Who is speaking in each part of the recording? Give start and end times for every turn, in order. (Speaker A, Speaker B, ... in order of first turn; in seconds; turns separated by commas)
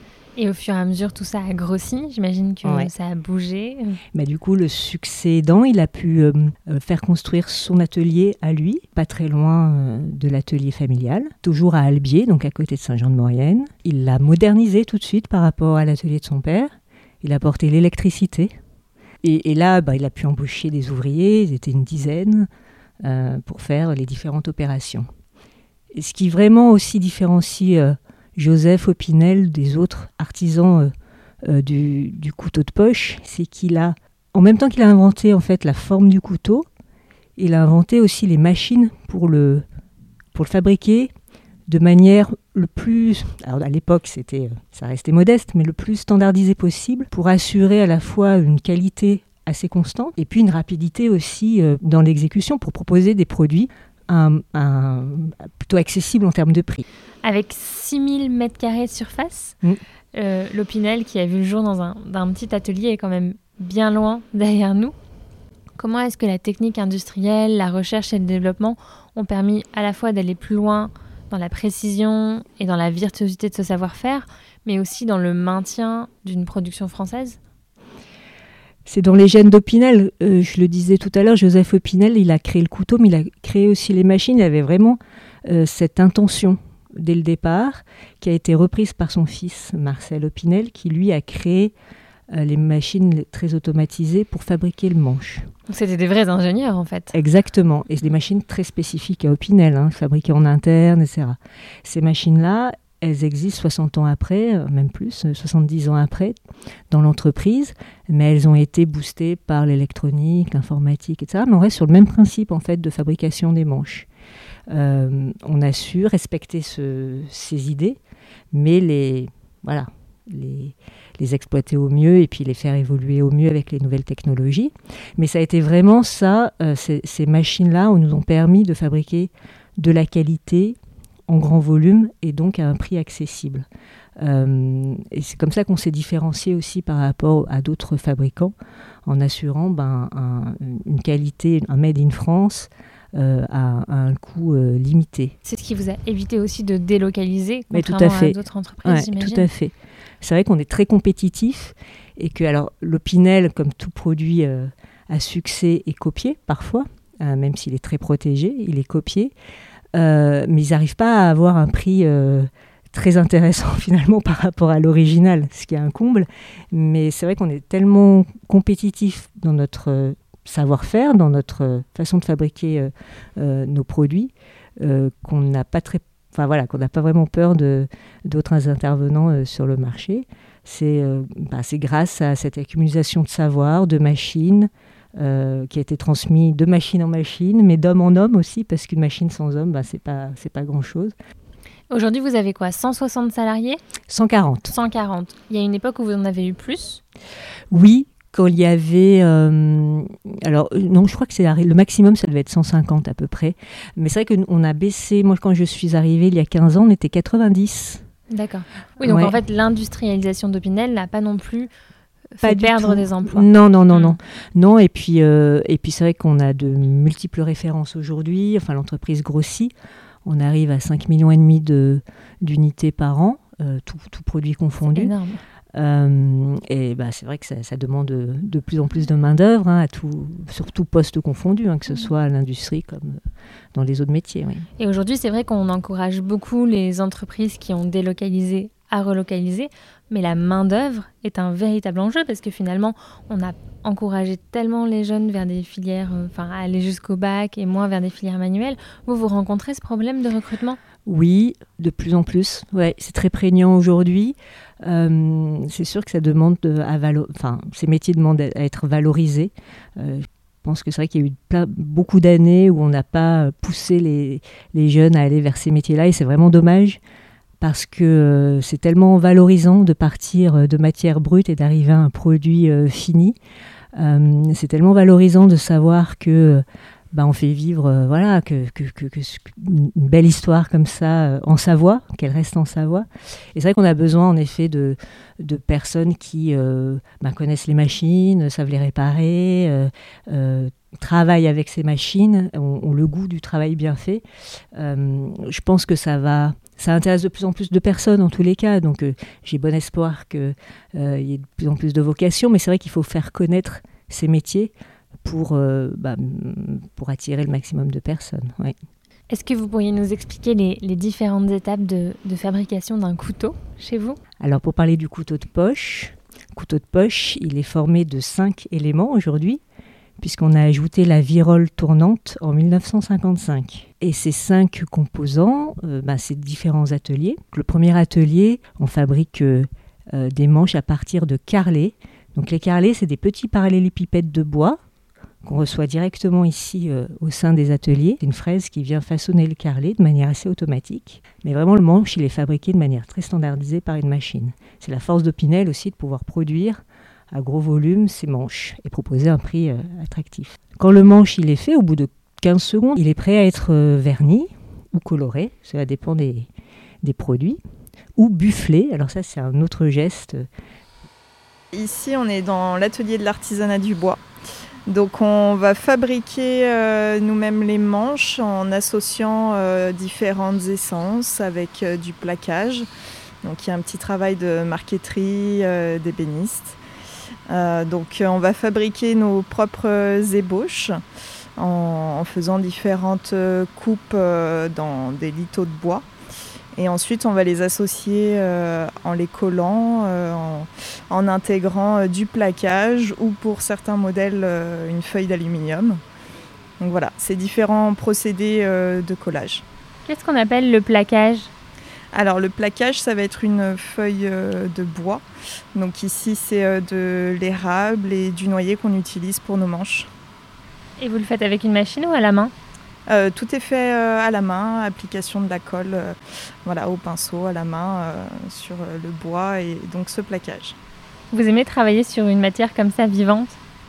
Speaker A: 0.3-4.0, Speaker B: 2.6-2.9, Speaker B: 4.1-18.5, Speaker B: 19.2-22.5, Speaker B: 23.0-25.1, Speaker B: 25.9-30.9, Speaker B: 31.4-36.7, Speaker B: 37.4-39.6, Speaker B: 40.3-41.1, Speaker B: 41.7-56.9, Speaker A: 57.2-59.6, Speaker A: 60.1-64.9, Speaker A: 65.8-77.4, Speaker B: 78.8-91.7, Speaker B: 92.3-95.5, Speaker A: 95.7-97.1, Speaker B: 97.1-106.3, Speaker B: 106.9-114.1, Speaker B: 114.7-118.0, Speaker B: 118.5-130.8, Speaker B: 131.3-133.7, Speaker B: 134.2-138.5, Speaker B: 139.1-145.3, Speaker A: 145.4-149.5, Speaker B: 147.7-159.3, Speaker B: 159.9-191.1, Speaker A: 191.9-193.8, Speaker B: 194.1-194.7, Speaker A: 194.7-197.0, Speaker B: 197.7-208.0, Speaker A: 208.3-211.7, Speaker B: 209.0-209.3, Speaker A: 212.3-214.1, Speaker B: 212.4-219.7, Speaker B: 220.2-225.1, Speaker A: 224.8-225.4, Speaker B: 225.7-233.2, Speaker B: 233.7-234.7, Speaker A: 234.8-250.8, Speaker B: 251.0-267.0, Speaker B: 267.6-273.4, Speaker B: 273.9-294.2, Speaker B: 294.7-304.7, Speaker B: 305.2-308.8, Speaker A: 309.3-314.2, Speaker B: 314.4-319.6, Speaker B: 320.2-334.8, Speaker B: 335.4-356.5, Speaker B: 357.0-357.6, Speaker B: 358.1-360.5, Speaker C: 361.7-364.2, Speaker C: 364.9-372.9, Speaker C: 373.4-376.8, Speaker C: 377.5-381.0, Speaker C: 381.6-386.1, Speaker C: 386.8-396.0, Speaker C: 396.8-399.6, Speaker A: 400.1-401.5, Speaker C: 402.1-410.1, Speaker A: 411.0-412.5, Speaker C: 413.1-420.8, Speaker A: 421.3-423.6